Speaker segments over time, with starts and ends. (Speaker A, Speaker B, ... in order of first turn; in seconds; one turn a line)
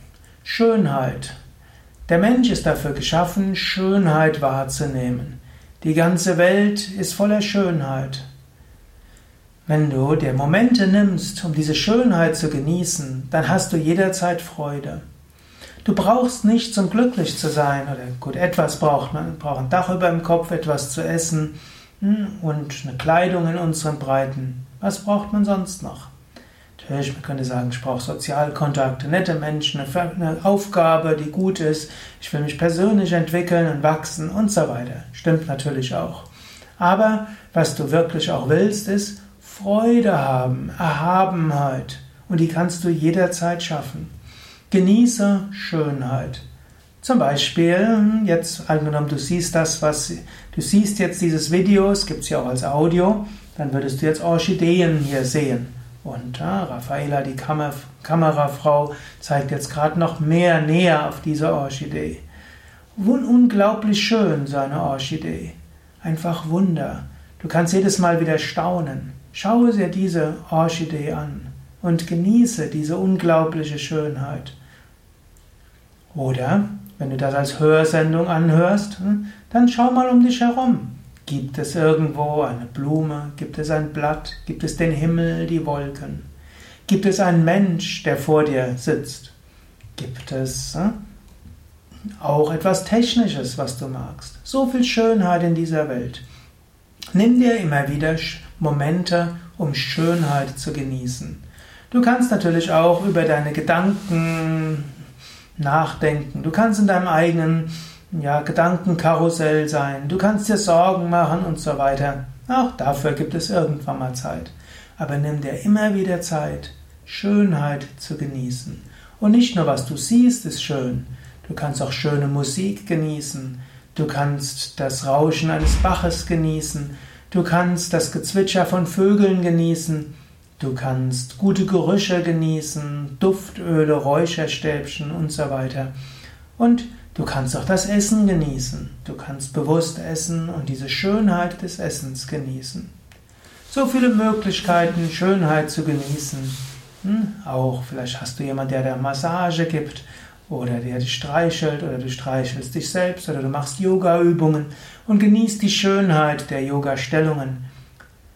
Speaker A: 0.4-1.4
Speaker A: 2.1-8.2
Speaker A: 9.7-15.0
Speaker A: 15.8-26.1
Speaker A: 26.8-36.3
Speaker A: 36.8-44.1
Speaker A: 44.7-46.4
Speaker A: 47.0-62.2
Speaker A: 63.0-74.5
Speaker A: 76.1-86.2
Speaker A: 86.9-89.3
Speaker A: 90.0-91.0
Speaker A: 92.2-96.2
Speaker A: 97.1-104.9
Speaker A: 105.6-135.9
Speaker A: 136.6-142.9
Speaker A: 143.7-157.6